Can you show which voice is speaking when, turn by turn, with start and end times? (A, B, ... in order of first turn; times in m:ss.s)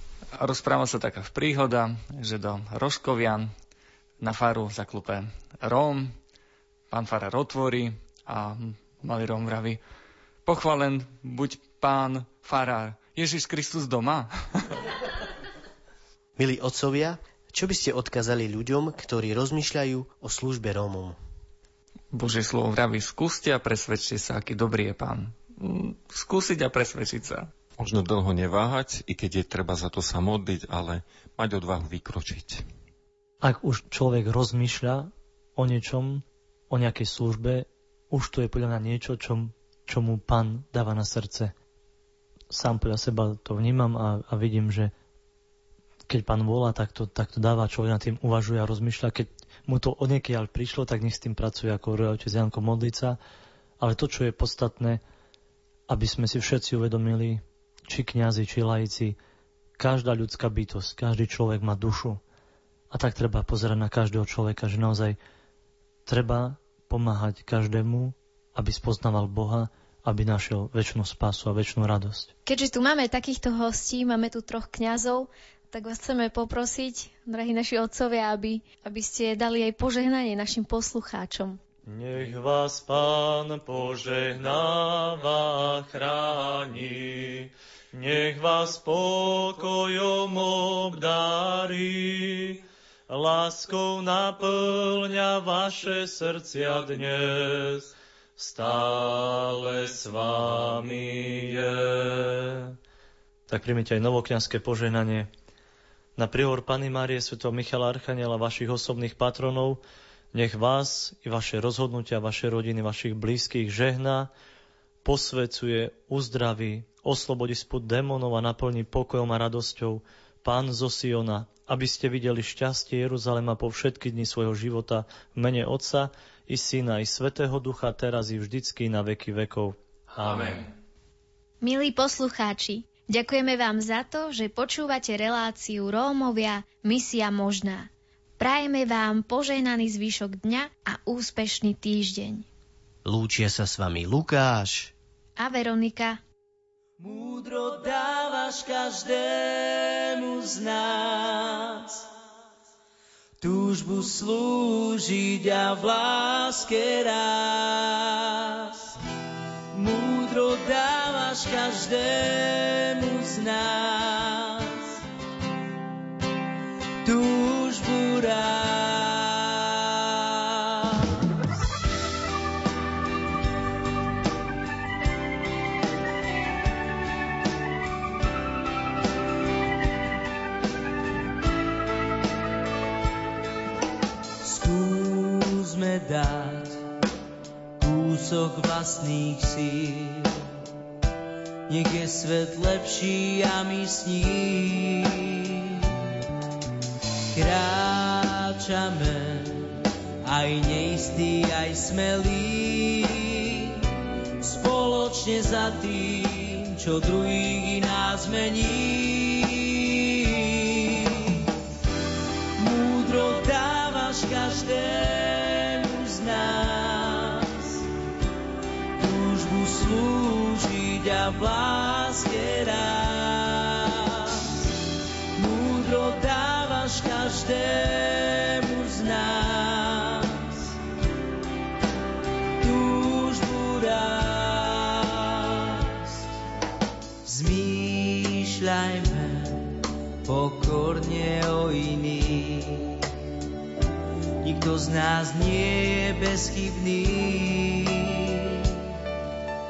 0:00.3-0:03.5 A
0:04.2-0:06.2 A
0:06.9-0:09.8 A
0:10.4-0:14.8 A
0:16.4-0:21.2 B
0:22.1-0:27.5 A
0:27.8-0:32.6 C
0:33.4-0:41.5 D
0:42.5-0:44.9 D
0:46.1-0:53.2 D
0:53.8-0:55.0 D
0:55.9-0:59.2 D
0:59.8-1:02.2 D
1:02.9-1:05.2 D
1:06.0-1:12.3 D
1:12.4-1:21.6 E
1:21.8-1:42.7 D
1:43.5-1:45.3 D
1:46.2-1:54.3 D
1:55.0-2:10.7 D
2:11.6-2:22.5 E
2:23.0-2:24.9 B
2:25.4-2:26.2 E
2:27.0-2:32.0 F
2:33.4-2:38.9 F
2:39.7-2:45.0 F
2:47.0-2:51.0 F
3:04.4-3:06.8 F
3:07.8-3:10.4 F
3:11.7-3:15.9 F
3:17.3-3:23.8 F
3:24.4-3:31.5 F
3:32.6-3:37.8 F
3:39.0-3:44.6 F
3:45.3-3:50.7 F
3:52.6-3:56.2 F
3:57.2-4:03.0 F
4:04.4-4:08.8 F